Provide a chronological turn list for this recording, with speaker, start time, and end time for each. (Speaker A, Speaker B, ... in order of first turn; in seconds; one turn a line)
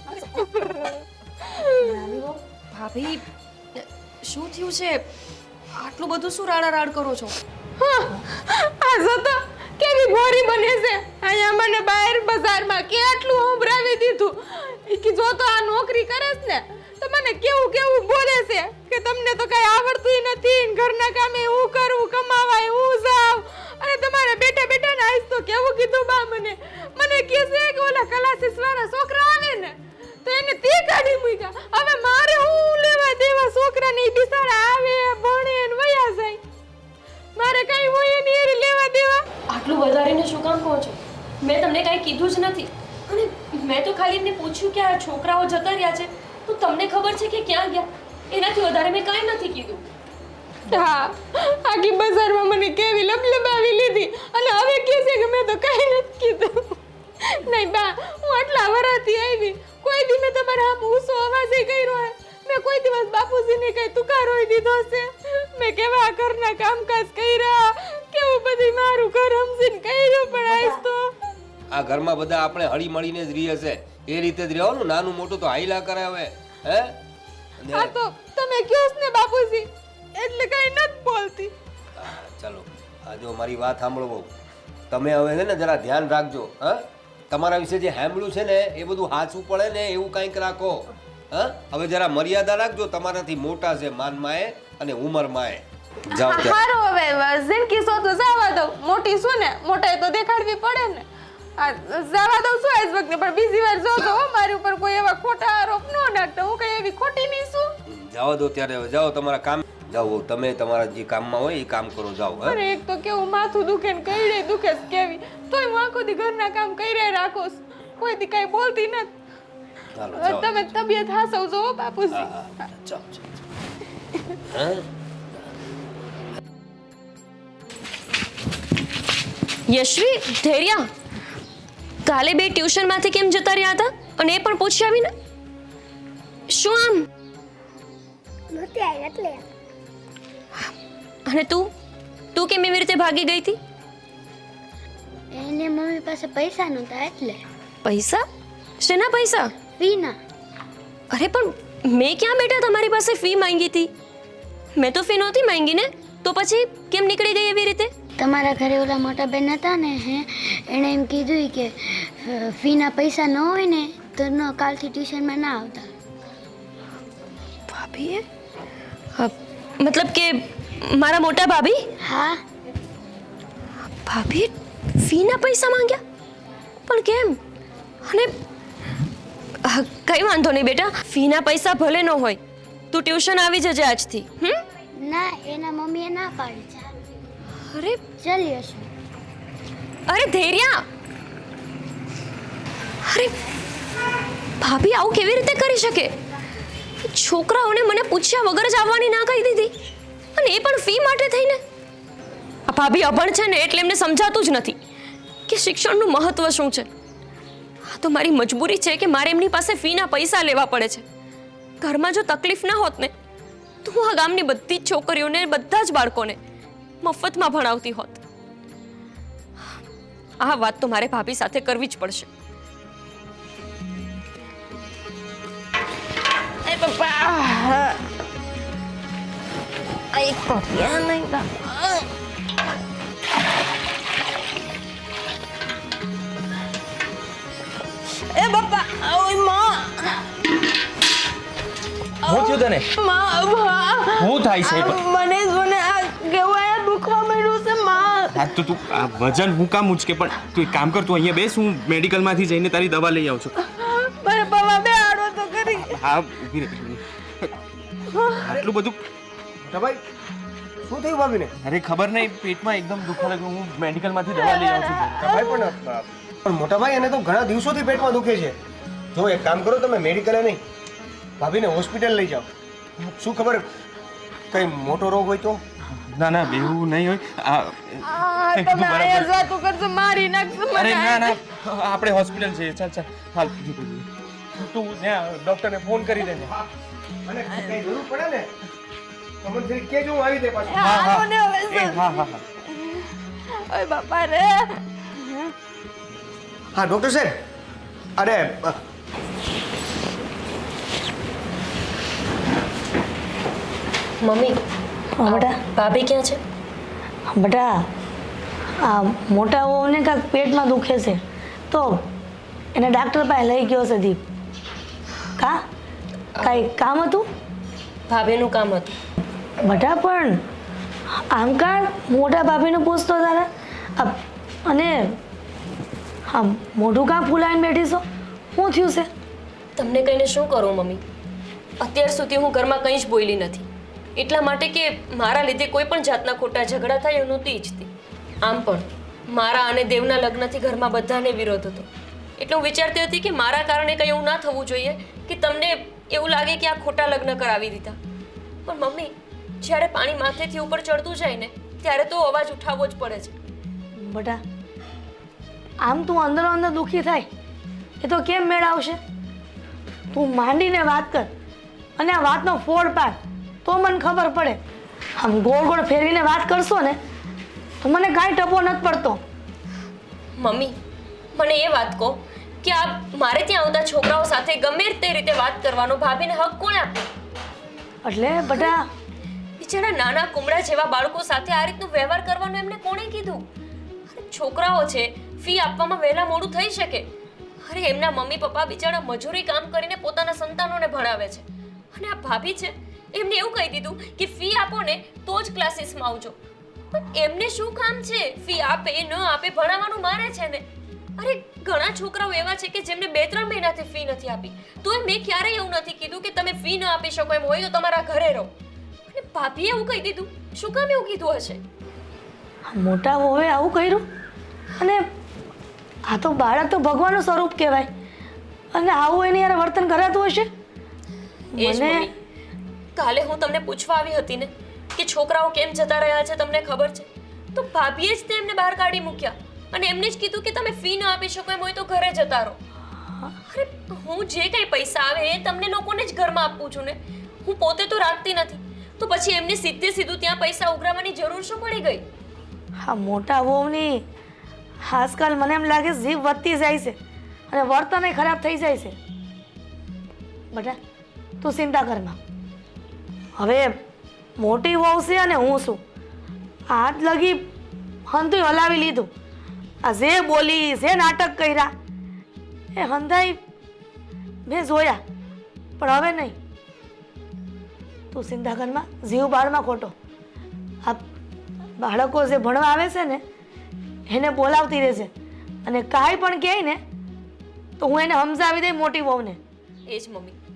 Speaker A: 0.2-1.0
Speaker A: 1.5-1.9
Speaker B: 1.7-2.4
Speaker C: 2.7-3.2
Speaker C: 3.8-5.1
Speaker C: 5.7-7.4
Speaker A: 7.8-36.4
Speaker A: 37.4-39.2
Speaker C: 39.5-49.9
Speaker A: 50.7-71.0
Speaker B: 70.3-70.8
Speaker D: 71.7-77.0
Speaker D: 77.6-77.9
Speaker A: 77.7-81.5
Speaker D: 82.0-84.3
Speaker D: 84.9-96.6
Speaker A: 96.1-101.1
Speaker A: 101.6-107.7
Speaker D: 107.9-112.6
Speaker A: 112.4-119.1
Speaker D: 119.9-120.7
Speaker A: 120.1-122.3
Speaker D: 122.1-123.2
Speaker D: 124.5-124.9
Speaker C: 129.7-130.9
Speaker C: 132.1-135.1
Speaker C: 136.5-137.1
Speaker E: 138.5-139.4
Speaker C: 141.3-141.7
Speaker C: 142.3-143.6
Speaker E: 145.3-147.4
Speaker C: 147.8-148.2
Speaker C: 148.8-149.5
Speaker E: 149.8-150.2
Speaker C: 151.1-153.9
Speaker C: 154.8-157.9
Speaker E: 158.2-165.9
Speaker C: 167.7-168.3
Speaker C: 169.2-171.8
Speaker E: 172.0-172.4
Speaker C: 174.1-176.0
Speaker C: 176.9-177.4
Speaker C: 178.1-178.3
Speaker C: 179.7-182.4
Speaker C: 182.9-184.6
Speaker E: 185.0-187.0
Speaker C: 187.7-188.0
Speaker E: 188.2-188.9
Speaker C: 190.1-190.8
Speaker C: 193.1-193.4
Speaker C: 194.6-196.1
Speaker C: 197.0-199.7
Speaker C: 200.4-201.6
Speaker C: 202.7-204.8
Speaker C: 205.5-206.9
Speaker C: 207.9-211.1
Speaker C: 211.8-213.1
Speaker C: 213.8-216.4
Speaker C: 217.0-218.2
Speaker C: 220.4-222.3
Speaker A: 226.8-227.8
Speaker A: 230.2-231.4
Speaker A: 238.4-239.8
Speaker F: 242.3-242.9
Speaker A: 242.3-248.4
Speaker F: 244.2-245.0
Speaker F: 248.3-253.5
Speaker A: 253.8-255.9
Speaker F: 255.8-257.0
Speaker A: 258.1-258.5
Speaker F: 258.4-259.0
Speaker G: 259.6-260.0
Speaker G: 260.9-261.5
Speaker F: 261.6-265.3
Speaker A: 264.3-265.5
Speaker G: 265.1-268.6
Speaker G: 269.1-270.6
Speaker G: 271.4-272.5
Speaker G: 273.1-273.6
Speaker G: 274.5-275.6
Speaker F: 276.1-279.4
Speaker A: 278.0-281.4
Speaker F: 280.7-284.1
Speaker F: 284.6-286.5
Speaker G: 286.4-286.7
Speaker G: 287.3-288.5
Speaker G: 289.4-291.1
Speaker A: 290.7-292.2
Speaker F: 290.8-292.4
Speaker A: 292.7-294.8
Speaker G: 296.8-297.3
Speaker G: 298.2-298.8
Speaker C: 304.2-304.6
Speaker B: 305.2-305.6
Speaker C: 305.2-306.4
Speaker B: 307.4-307.7
Speaker B: 308.8-311.2
Speaker B: 311.7-312.0
Speaker B: 312.8-314.2
Speaker B: 316.4-317.3
Speaker C: 318.1-318.9
Speaker B: 319.6-320.4
Speaker B: 321.2-325.0
Speaker B: 326.3-328.0
Speaker B: 328.6-329.1
Speaker C: 329.8-331.0
Speaker C: 331.8-337.9
Speaker C: 338.4-348.0
Speaker C: 348.7-353.4
Speaker B: 354.1-354.4
Speaker B: 355.8-357.3
Speaker B: 358.0-359.0
Speaker B: 360.1-361.3
Speaker B: 362.0-364.6
Speaker B: 365.2-367.0
Speaker B: 367.8-369.2
Speaker C: 370.4-370.8
Speaker C: 371.4-377.1
Speaker B: 378.1-378.8
Speaker C: 379.6-383.4
Speaker C: 384.1-387.1
Speaker C: 387.6-396.4
Speaker C: 396.9-400.6
Speaker C: 401.2-408.5
Speaker C: 409.1-411.6
Speaker B: 412.7-414.0
Speaker B: 414.8-415.0
Speaker B: 416.1-417.9
Speaker B: 418.7-420.5
Speaker B: 421.6-422.1
Speaker C: 421.6-422.1
Speaker C: 422.9-432.6
Speaker C: 433.5-442.0
Speaker B: 442.8-444.0
Speaker B: 444.9-447.0
Speaker B: 447.5-448.9
Speaker B: 450.5-450.8
Speaker B: 451.4-452.2
Speaker B: 453.4-453.7
Speaker B: 454.4-455.8
Speaker B: 456.7-457.4
Speaker B: 458.1-459.1
Speaker B: 459.8-461.7
Speaker B: 462.8-463.4
Speaker B: 464.5-465.0
Speaker B: 465.8-466.4
Speaker B: 468.1-469.9
Speaker B: 471.8-473.2
Speaker B: 474.1-475.1
Speaker B: 475.6-476.8
Speaker B: 477.8-479.4
Speaker C: 479.9-480.4